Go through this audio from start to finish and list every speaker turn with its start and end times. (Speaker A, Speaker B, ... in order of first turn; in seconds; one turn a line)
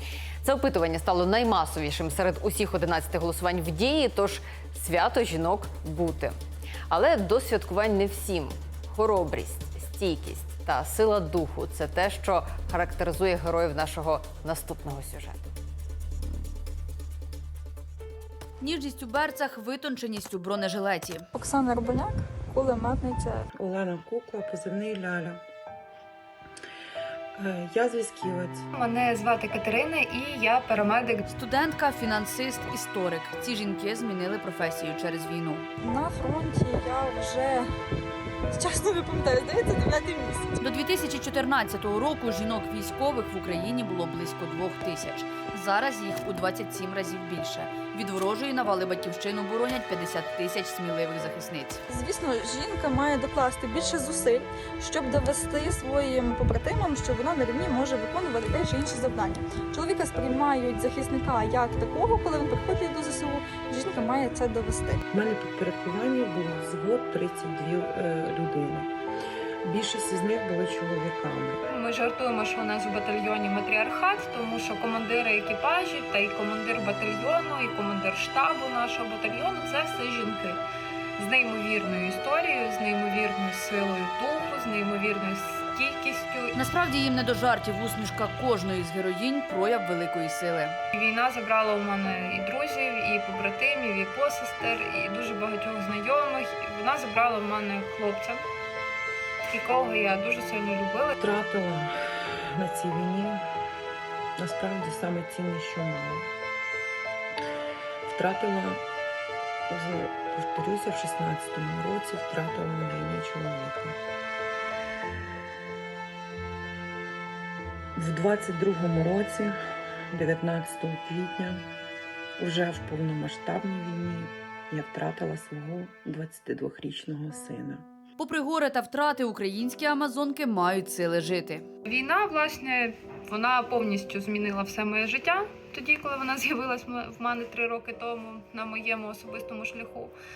Speaker A: 0.4-6.3
Speaker A: 6.9-15.5
Speaker B: 18.6-21.3
Speaker C: 21.4-23.4
Speaker D: 23.6-25.4
Speaker D: 27.4-28.7
Speaker E: 28.7-31.2
Speaker B: 31.3-35.7
Speaker C: 35.8-37.7
Speaker C: 38.5-40.6
Speaker B: 40.6-51.8
Speaker C: 51.9-65.0
Speaker D: 65.1-68.9
Speaker D: 69.6-71.6
Speaker E: 71.7-80.6
Speaker E: 81.2-86.6
Speaker B: 86.5-90.8
Speaker E: 90.9-98.4
Speaker E: 99.5-101.2
Speaker D: 101.2-101.9
Speaker D: 102.6-103.4
Speaker D: 104.4-106.3
Speaker D: 108.0-108.8
Speaker D: 109.7-114.0
Speaker D: 118.0-119.6
Speaker D: 120.1-121.7
Speaker D: 122.4-127.9
Speaker B: 128.2-131.7
Speaker E: 131.9-140.1